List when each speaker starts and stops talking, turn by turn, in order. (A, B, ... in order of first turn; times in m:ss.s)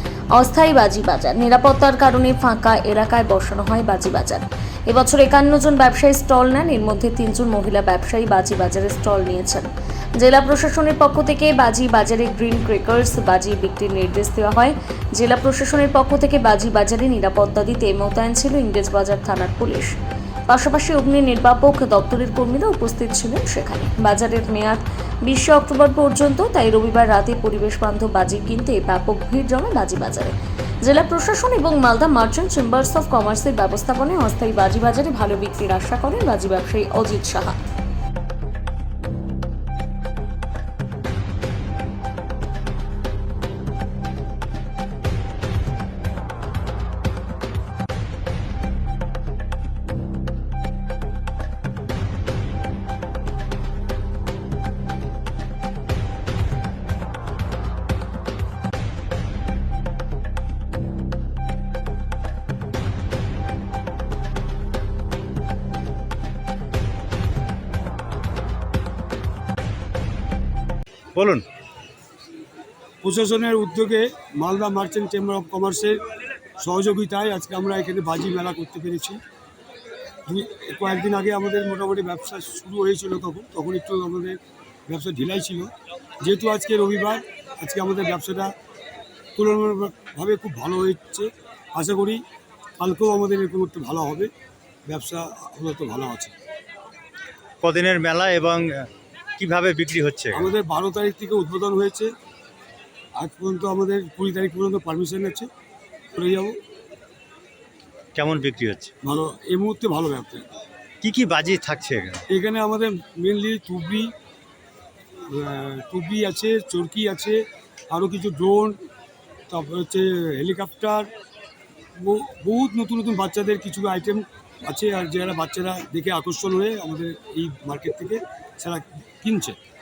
0:00.3-0:19.9 A
0:20.5-0:37.6 A
1:11.2-1:11.4 B
1:13.0-1:16.0 C
1:16.6-1:19.2 C
1:20.3-1:28.5 C
1:29.4-1:32.2 C
1:32.8-1:34.3 C
1:34.9-1:36.3 C
1:37.6-1:38.9 B
1:39.4-1:40.5 B
1:40.3-1:42.1 C
1:43.2-1:45.5 C
1:46.1-1:46.6 C
1:48.2-1:48.9 B
1:49.0-1:50.5 C
1:51.0-1:52.2 B
1:52.3-1:54.1 C
1:55.3-1:58.8 C
1:59.5-2:01.1 C
2:02.0-2:09.6 C